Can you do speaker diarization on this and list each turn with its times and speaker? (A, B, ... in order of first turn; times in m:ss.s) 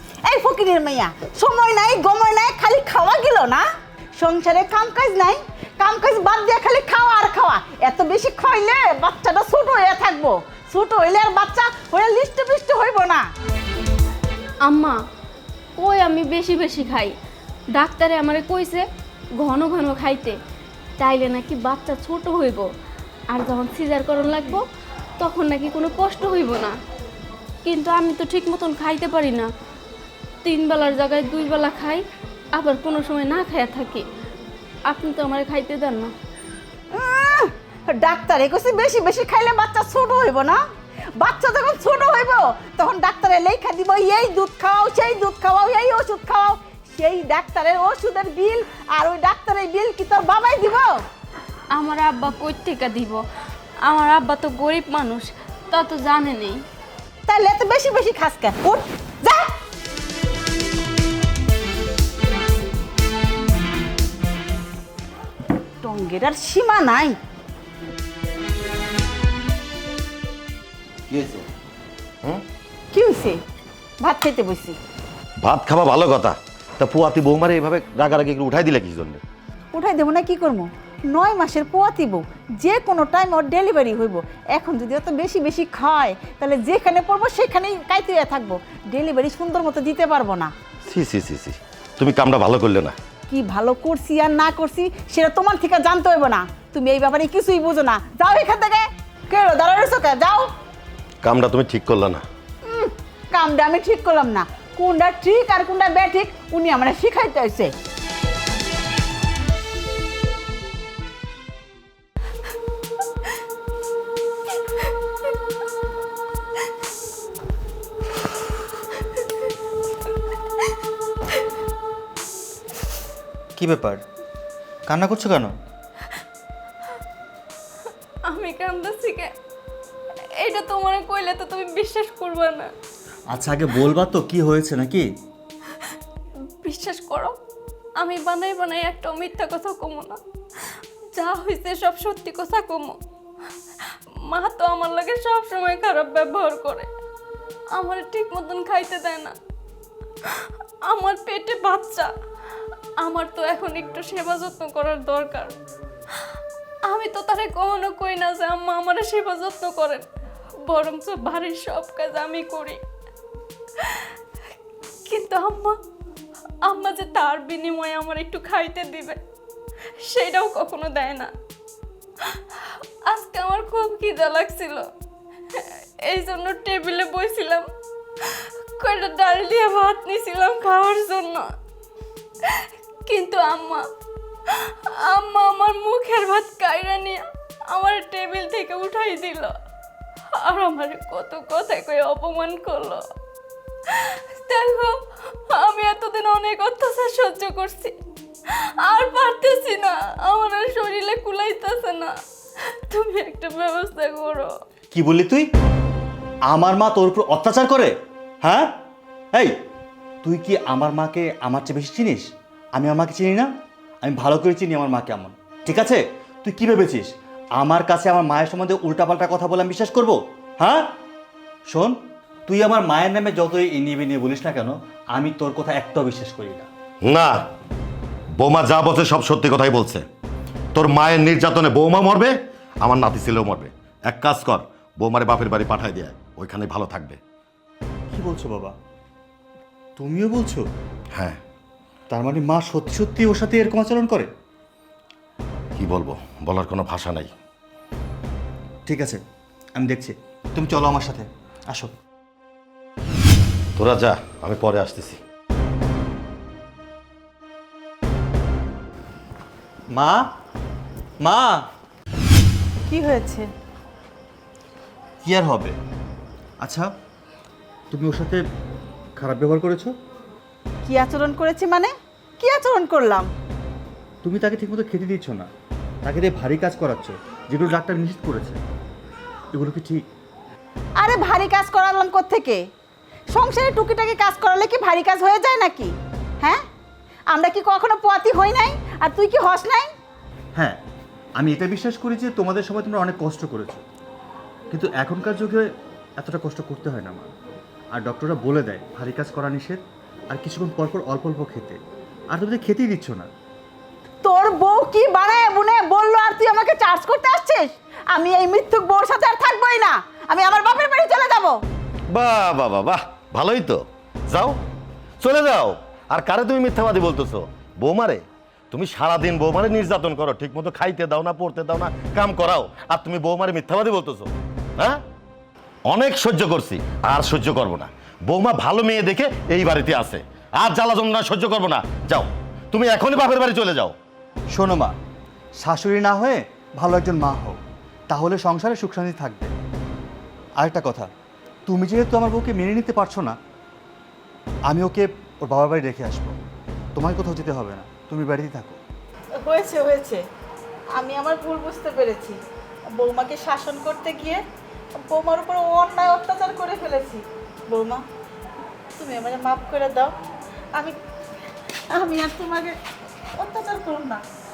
0:00.2-0:03.7 A
0:04.2-0:13.2 A
0:14.6-0:15.0 B
0:15.8-0:17.1 B
0:17.8-0:18.9 B
0:19.4-0:20.4 B
0:21.0-0:22.7 B
0:23.3-0:24.7 B
0:25.2-0:26.8 B
0:27.6-0:29.5 B
0:30.4-0:32.0 B
0:32.6-0:34.1 B
0:34.9-0:36.1 B
0:36.9-0:40.6 A
0:41.2-0:51.0 A
0:51.7-0:53.2 B
0:53.9-0:56.6 B
0:57.3-0:59.5 A
1:05.8-1:07.2 A
1:11.1-1:11.5 C
1:12.9-1:13.4 A
1:14.0-1:14.8 A
1:15.4-1:19.2 C
1:19.7-1:30.5 A
1:30.8-1:33.0 C
1:33.3-1:40.5 A
1:41.2-1:42.2 C
1:42.6-1:47.7 A
2:03.6-2:04.0 D
2:04.9-2:05.5 D
2:08.3-2:09.3 B
2:10.4-2:12.7 B
2:13.3-2:15.1 D
2:16.6-2:17.4 B
2:18.0-2:23.0 B
2:24.3-2:26.9 B
2:27.7-2:29.4 B
2:30.3-2:32.1 B
2:33.0-2:35.6 B
2:36.9-2:40.0 B
2:40.6-2:42.8 B
2:43.8-2:44.1 B
2:45.1-2:45.8 B
2:46.6-2:49.2 B
2:50.0-2:51.3 B
2:52.3-2:54.9 B
2:55.5-2:57.7 B
2:58.2-3:01.5 B
3:02.5-3:03.8 B
3:04.5-3:09.5 B
3:10.3-3:13.1 B
3:13.9-3:17.9 B
3:18.5-3:22.1 B
3:22.9-3:24.5 B
3:24.9-3:25.5 D
3:26.5-3:28.7 D
3:30.2-3:33.5 D
3:34.0-3:40.9 D
3:41.7-3:42.0 D
3:42.5-3:46.7 D
3:47.0-3:47.4 C
3:48.4-3:50.1 C
3:50.8-3:57.2 C
3:58.1-3:58.8 D
4:00.0-4:00.7 D
4:01.1-4:01.4 C
4:02.1-4:04.3 D
4:05.8-4:07.3 C
4:08.9-4:09.2 D
4:09.8-4:11.9 D
4:13.8-4:15.2 C
4:19.9-4:20.3 D
4:21.2-4:21.7 D
4:22.9-4:23.5 A
4:25.2-4:25.8 D
4:26.6-4:26.9 D
4:27.9-4:28.4 D
4:29.2-4:29.9 D
4:30.8-4:33.3 A
4:34.2-4:35.5 D
4:36.0-4:38.6 D
4:39.5-4:40.0 D
4:41.0-4:42.6 A
4:43.3-4:46.6 A
4:47.3-4:49.9 A
4:50.6-4:50.8 D
4:51.4-4:53.8 D
4:54.7-4:57.3 D
4:57.9-5:03.3 D
5:04.2-5:11.6 A
5:12.1-5:14.6 C
5:15.2-5:25.0 C
5:25.9-5:34.0 C
5:34.5-5:35.0 D
5:35.6-5:39.5 D
5:40.6-5:41.1 D
5:41.7-5:43.4 D
5:44.7-5:46.4 D
5:47.0-5:48.8 D
5:49.4-5:50.2 A
5:51.0-5:52.4 A
5:53.0-5:54.4 A
5:55.1-5:58.0 A
5:59.0-6:00.1 A
6:01.9-6:02.8 A
6:03.4-6:04.2 A